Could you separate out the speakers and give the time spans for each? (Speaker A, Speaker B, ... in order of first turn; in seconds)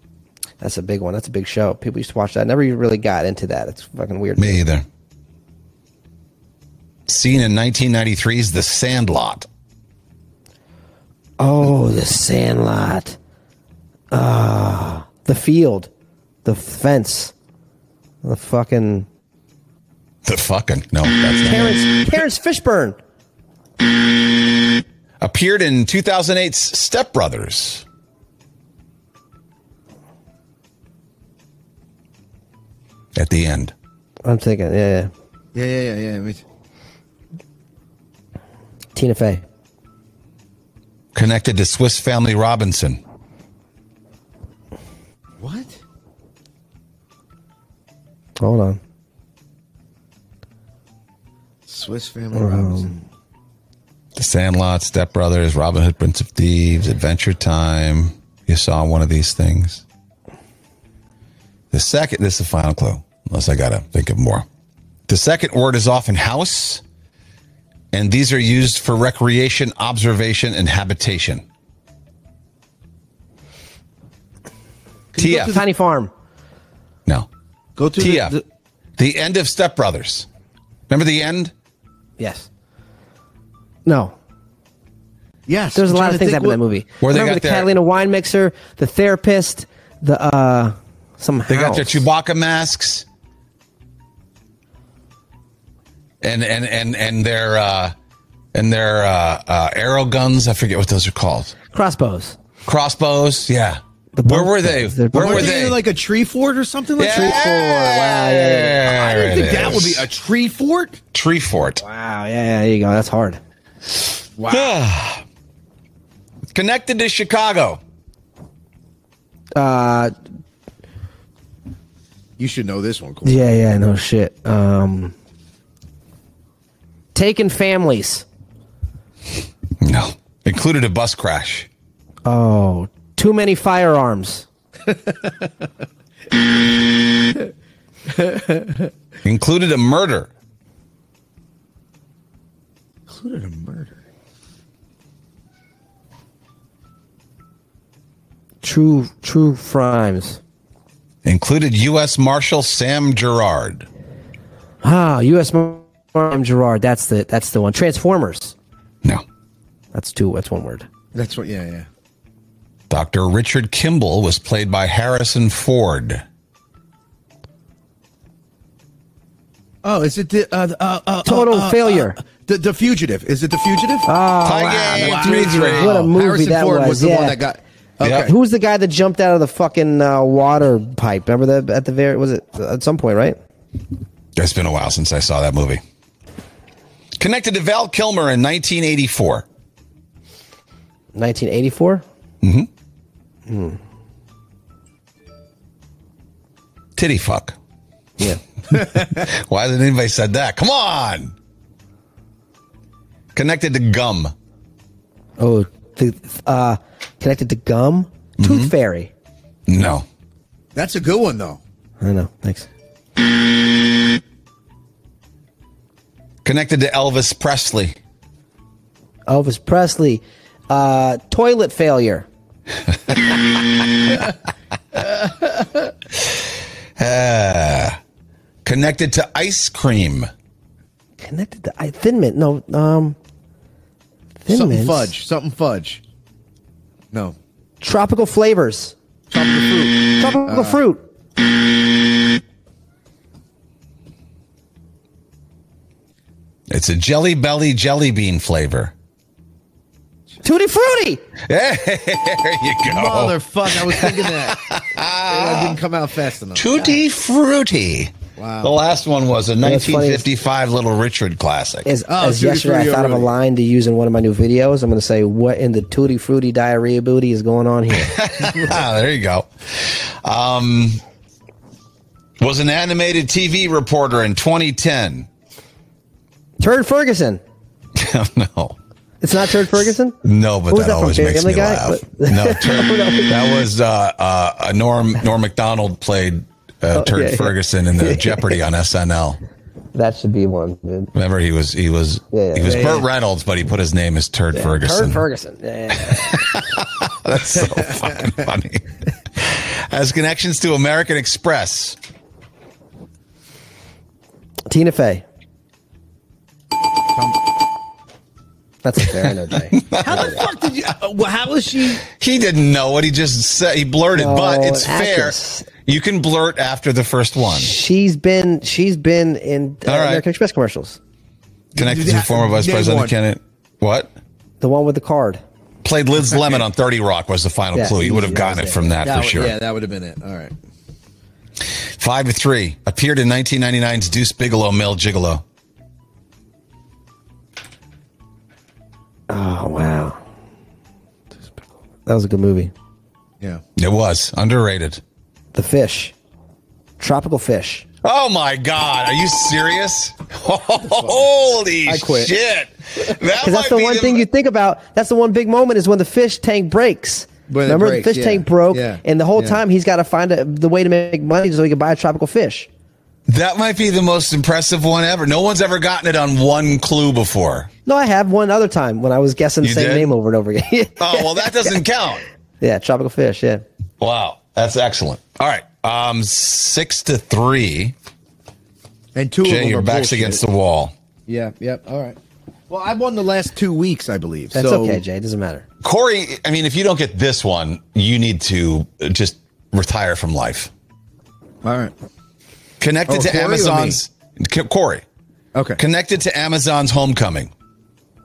Speaker A: 0.6-4.6, 11.4-13.2, 14.1-15.9, 16.4-17.3, 18.2-19.1, 21.4-23.0, 34.2-35.1, 38.9-39.4, 48.4-48.8, 52.3-52.9, 75.3-76.1, 82.2-82.5, 83.8-84.1, 85.7-92.0, 101.7-102.4, 104.1-105.5, 107.0-108.8, 111.8-113.4, 119.5-120.1, 123.2-125.1, 127.1-128.2, 132.2-134.4, 148.6-150.4, 154.8-158.5, 159.9-160.9, 171.2-172.2, 174.1-177.4, 178.2-183.4, 191.1-192.0, 193.5-193.8, 205.4-209.1, 212.0-212.7, 219.3-222.3, 231.2-233.2, 234.4-235.1, 237.8-238.9, 240.2-241.0, 250.4-251.2, 259.6-260.3, 261.8-268.2, 276.6-277.4, 279.2-280.2, 280.7-283.5, 286.9-288.6, 289.9-291.1, 292.3-293.0, 294.5-296.4, 304.7-305.2, 308.8-310.4, 314.1-315.7, 317.5-321.0, 324.6-325.4, 327.7-328.9, 339.3-340.2, 342.1-342.7, 345.5-346.1, 347.0-347.8, 353.4-362.7, 367.9-371.8, 372.6-373.6, 384.5-385.6
Speaker B: 4.4-4.8, 7.1-9.5, 20.2-21.9, 25.2-27.8, 33.1-33.7, 41.1-43.0, 54.1-59.8, 61.7-64.5, 65.1-66.8, 67.9-71.4, 75.1-75.6, 78.0-78.4, 79.0-80.3, 80.9-81.5, 87.0-87.7, 91.5-93.0, 96.2-97.9, 98.5-101.5, 102.6-105.8, 107.0-110.1, 111.1-111.8, 114.5-115.2, 116.5-117.8, 129.8-131.7, 139.2-140.3, 151.2-153.9, 162.9-166.2, 174.4-176.1, 178.0-178.3, 184.3-185.8, 187.2-189.4, 192.4-192.7, 196.9-197.6, 198.7-201.3, 203.3-204.3, 208.4-208.7, 209.7-210.1, 216.4-218.0, 226.9-228.0, 228.6-230.3, 246.7-248.9, 251.4-255.8, 256.5-261.9, 267.9-271.0, 272.4-275.3, 277.9-278.8, 279.7-289.4, 291.1-295.2, 296.1-302.0, 309.7-310.4, 312.0-317.7, 319.9-320.2, 321.7-324.1, 325.8-329.6, 332.0-335.4, 343.8-345.0, 348.0-354.2, 363.3-367.7, 369.6-370.1, 371.0-372.2, 374.0-377.9, 379.4-380.9, 385.8-390.7, 392.8-395.0, 395.8-397.5
Speaker C: 35.5-36.4, 45.4-45.7, 51.7-53.0, 75.1-75.6, 77.8-78.4, 85.5-86.6, 105.1-107.4, 108.9-111.0, 114.4-114.8, 122.4-123.4, 138.1-138.7, 143.1-144.0, 161.1-161.9, 169.8-174.1, 174.9-178.3, 210.7-211.6, 234.5-236.0, 239.3-240.8, 252.8-254.7, 255.3-257.0, 258.4-258.7, 262.1-263.3, 310.0-312.0, 321.7-323.1, 329.0-330.5, 351.9-352.3, 357.5-359.6, 379.1-380.4, 381.3-382.2, 382.7-385.0, 391.6-391.9, 393.1-394.0, 395.5-395.8